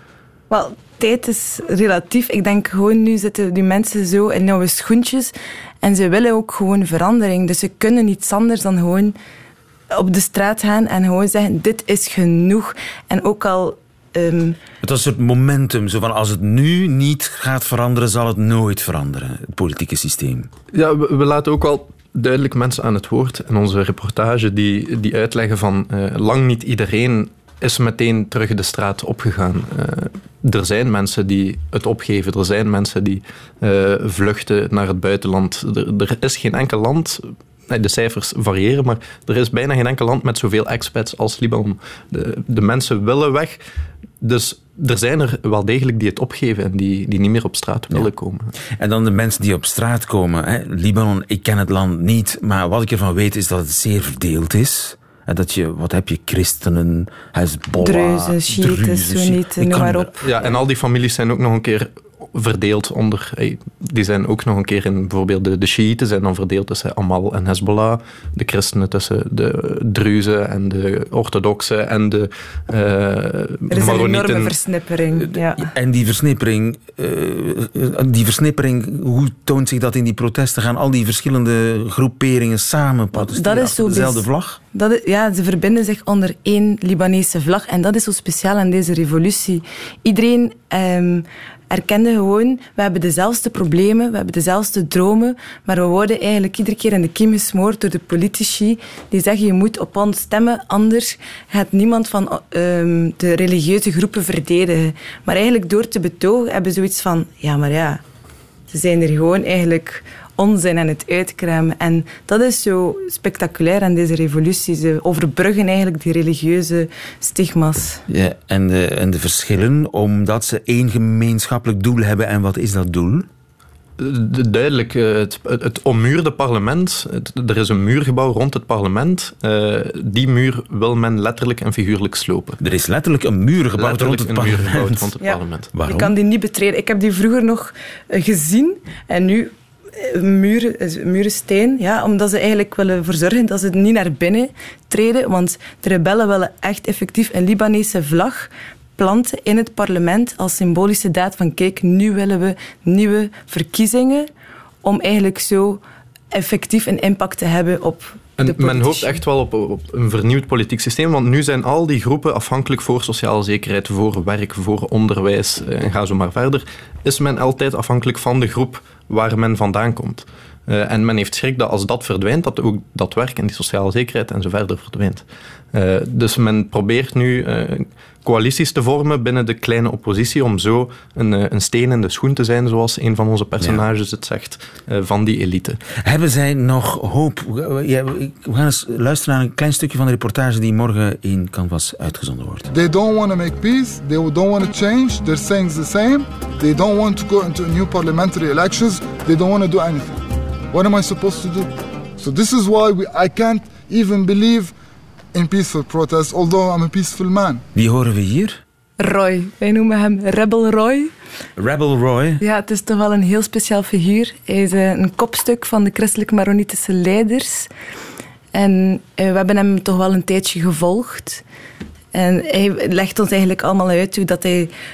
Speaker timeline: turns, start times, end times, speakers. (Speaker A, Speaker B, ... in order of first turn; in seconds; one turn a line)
Speaker A: 0.5-9.2
Speaker A: 9.9-14.6
Speaker B: 14.8-20.5
Speaker C: 20.7-43.6
Speaker C: 44.2-48.5
Speaker B: 48.8-60.5
Speaker A: 57.8-60.2
Speaker C: 60.2-74.5
Speaker A: 73.7-75.7
Speaker B: 75.2-84.6
Speaker A: 83.2-108.0
Speaker A: 108.7-118.0
Speaker B: 118.1-123.3
Speaker C: 124.0-132.6
Speaker B: 132.6-135.1
Speaker C: 133.8-135.7
Speaker A: 135.2-154.3
Speaker B: 135.7-136.1
Speaker A: 154.8-159.2
Speaker C: 158.4-185.8
Speaker B: 186.0-192.7
Speaker D: 192.7-200.2
Speaker D: 200.7-204.7
Speaker D: 205.3-207.6
Speaker B: 207.7-208.6
Speaker A: 209.0-211.1
Speaker B: 211.6-212.4
Speaker A: 212.4-217.7
Speaker A: 218.5-221.4
Speaker A: 222.1-224.7